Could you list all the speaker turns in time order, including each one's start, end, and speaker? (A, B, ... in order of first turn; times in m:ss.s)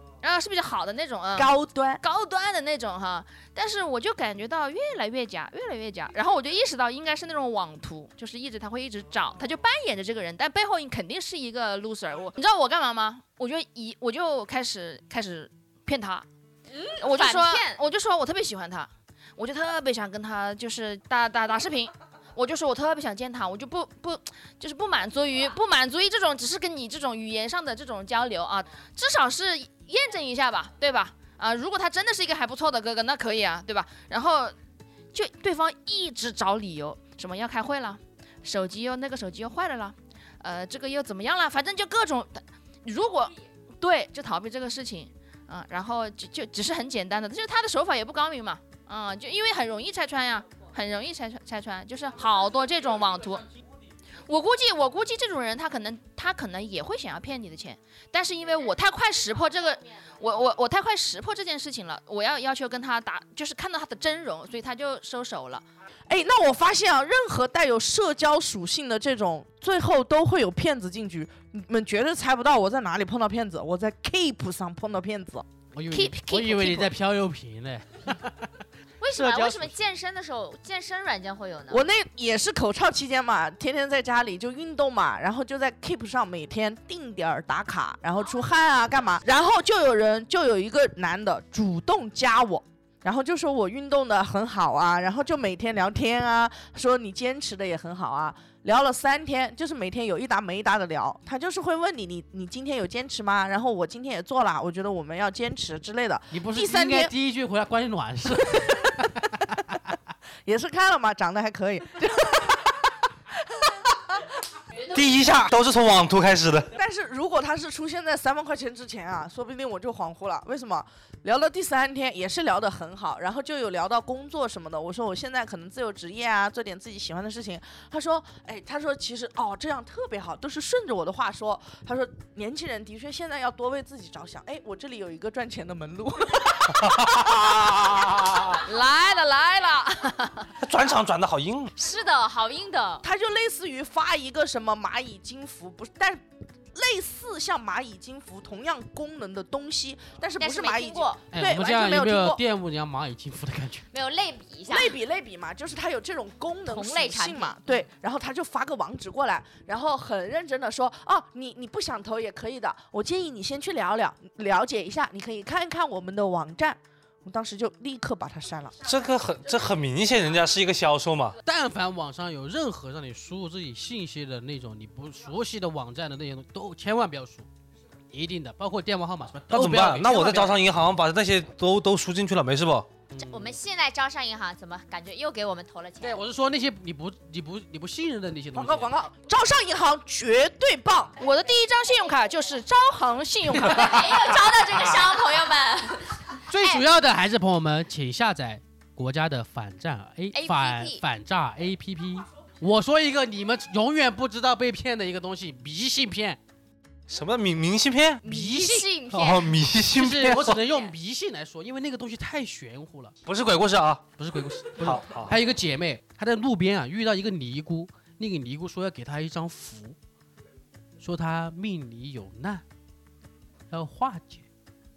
0:00.2-0:16.3 A
0:01.4-0:02.0 B
0:16.7-0:17.8 C
0:17.0-0:34.6 A
0:35.1-0:53.5 A
0:54.2-1:05.6 A
1:06.1-1:15.5 B
1:15.7-1:19.8 D
1:15.9-1:16.9 A
1:19.0-1:21.9 C
1:21.7-1:47.1 B
1:46.3-1:49.6 D
1:50.5-1:52.9 B
1:53.5-1:54.1 B
1:54.9-1:56.7 E
1:56.7-2:18.5 B
2:16.8-2:17.2 E
2:18.0-2:18.5 E
2:18.6-2:20.5 A
2:20.6-2:21.7 E
2:21.8-2:23.0 C
2:23.0-2:26.2 B
2:26.7-2:32.4 B
2:30.4-2:31.2 C
2:31.3-2:33.9 D
2:33.9-2:35.0 C
2:34.7-2:48.8 B
2:36.7-2:37.6 C
2:48.8-2:51.4 E
2:51.4-2:57.5 D
2:58.1-3:00.6 D
2:59.5-3:02.9 E
3:03.1-3:03.6 D
3:03.2-3:06.2 C
3:06.0-3:08.9 D
3:08.5-3:11.2 B
3:11.2-3:14.4 A
3:13.6-3:16.8 C
3:16.5-3:26.4 D
3:20.3-3:21.0 C
3:27.1-3:28.2 E
3:28.2-3:29.3 D
3:28.2-3:29.6 C
3:29.1-3:30.6 E
3:29.9-3:33.2 D
3:33.2-3:34.1 E
3:34.2-3:40.0 D
3:34.8-3:35.4 E
3:41.0-3:42.6 D
3:43.7-3:44.4 D